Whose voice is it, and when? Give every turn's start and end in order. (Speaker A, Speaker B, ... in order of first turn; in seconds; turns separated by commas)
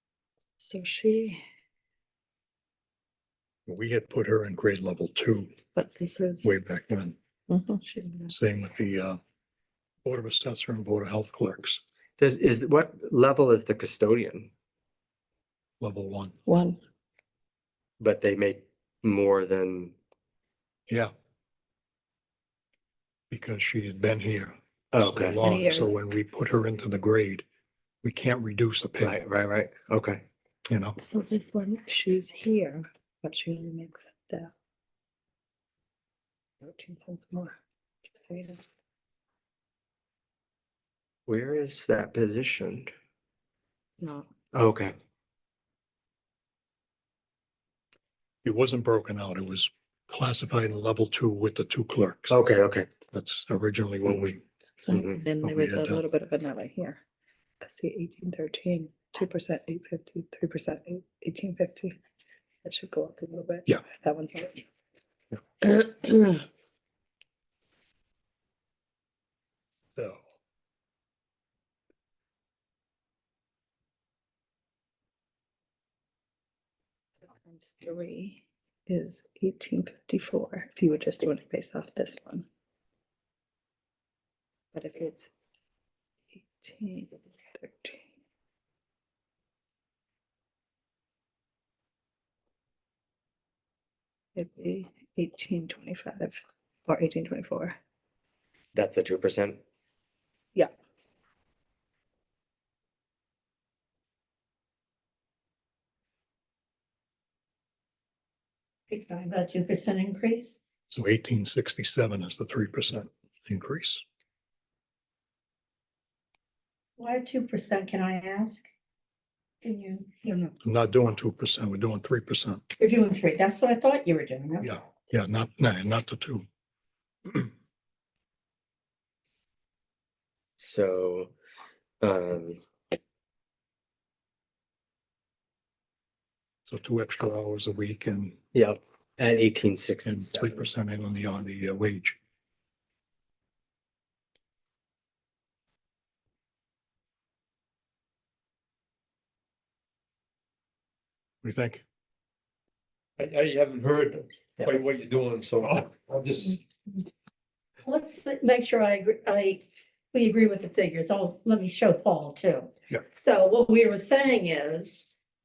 Speaker A: 0.6-1.4, Speaker B: 3.7-5.5, Speaker A: 5.8-6.5, Speaker B: 6.4-7.2, Speaker A: 7.5-8.3, Speaker B: 8.3-9.2, Speaker B: 10.1-11.8, Speaker C: 12.2-14.5, Speaker B: 15.8-16.4, Speaker A: 16.5-16.8, Speaker C: 18.0-19.9, Speaker B: 23.3-27.4, Speaker C: 24.9-25.4, Speaker A: 25.4-25.9, Speaker B: 28.0-29.2, Speaker C: 29.0-30.2, Speaker B: 30.7-31.0, Speaker A: 31.0-34.5, Speaker A: 36.6-37.6, Speaker A: 38.1-38.6, Speaker C: 41.3-42.9, Speaker C: 44.5-45.0, Speaker B: 48.4-52.4, Speaker C: 52.3-52.9, Speaker B: 53.1-54.4, Speaker A: 54.8-57.0, Speaker C: 54.9-55.2, Speaker B: 55.4-56.0, Speaker A: 57.6-62.0, Speaker A: 62.6-64.6, Speaker C: 65.6-66.4, Speaker B: 70.0-70.2, Speaker A: 77.3-82.5, Speaker A: 84.7-85.3, Speaker A: 86.3-88.0, Speaker A: 94.3-97.8, Speaker C: 98.7-99.6, Speaker D: 108.9-110.6, Speaker B: 110.9-114.0, Speaker D: 117.0-118.7, Speaker D: 119.6-120.5, Speaker B: 120.6-122.6, Speaker D: 122.8-124.8, Speaker B: 124.6-126.5, Speaker C: 130.6-131.3, Speaker C: 132.0-132.6, Speaker B: 136.7-138.4, Speaker C: 138.5-140.6, Speaker B: 140.1-142.2, Speaker B: 151.4-151.8, Speaker E: 153.2-156.6, Speaker D: 157.8-165.1